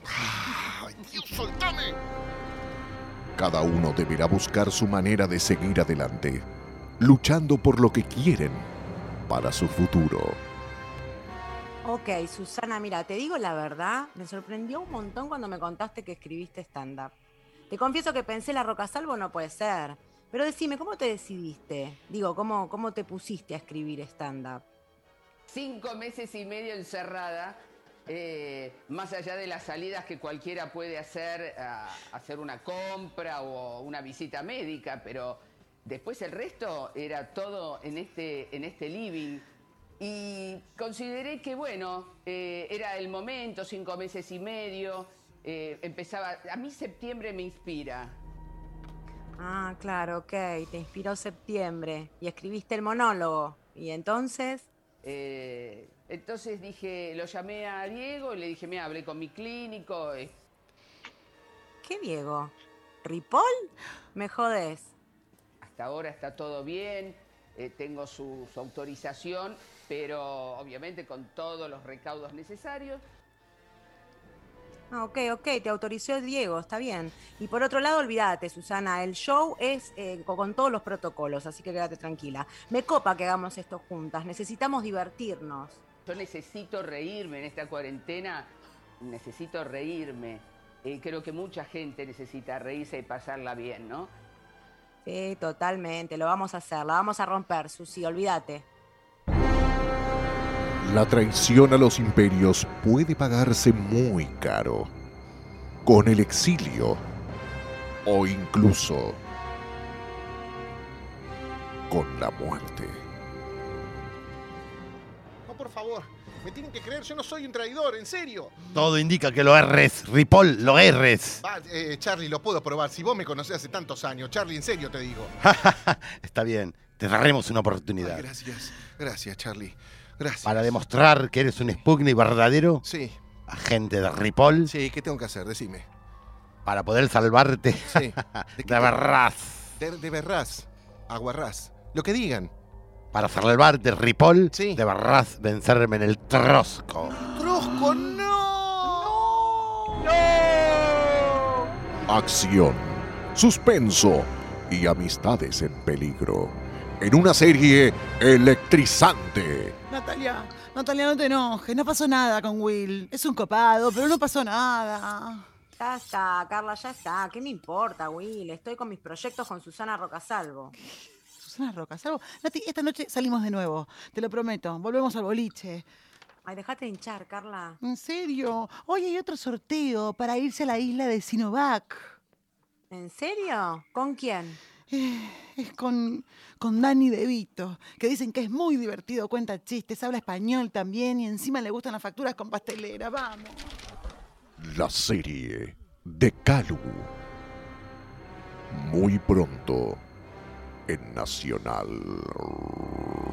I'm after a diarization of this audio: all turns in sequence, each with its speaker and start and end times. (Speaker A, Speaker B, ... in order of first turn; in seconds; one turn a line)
Speaker A: 0.1-1.9
Speaker B: 3.4-6.5
Speaker B: 7.0-8.7
Speaker B: 9.3-10.4
Speaker C: 11.8-17.1
Speaker C: 17.7-24.6
Speaker D: 25.5-39.4
Speaker D: 40.0-48.2
Speaker C: 49.4-54.7
Speaker D: 55.0-60.3
Speaker C: 61.8-64.9
Speaker D: 65.6-73.0
Speaker C: 74.9-85.8
Speaker D: 86.1-94.1
Speaker C: 95.0-98.7
Speaker B: 100.8-104.9
Speaker B: 105.9-107.0
Speaker B: 108.1-109.2
Speaker B: 111.9-113.0
Speaker A: 115.5-118.6
Speaker E: 118.7-121.4
Speaker A: 121.4-125.3
Speaker E: 125.4-128.2
Speaker A: 128.0-130.8
Speaker E: 130.4-132.8
Speaker A: 132.8-133.2
Speaker E: 133.5-134.7
Speaker A: 134.6-135.9
Speaker E: 136.7-139.7
Speaker A: 137.9-139.0
Speaker A: 139.8-142.5
Speaker E: 143.1-147.2
Speaker A: 144.5-144.8
Speaker A: 147.1-149.1
Speaker F: 148.8-150.2
Speaker A: 150.1-151.1
Speaker B: 152.1-159.7
Speaker F: 159.9-165.5
Speaker C: 165.8-170.8
Speaker F: 171.4-175.9
Speaker C: 176.4-177.8
Speaker F: 177.8-182.2
Speaker C: 182.9-184.6
Speaker F: 184.9-193.7
Speaker B: 194.6-197.1
Speaker B: 198.7-200.0
Speaker B: 200.9-203.1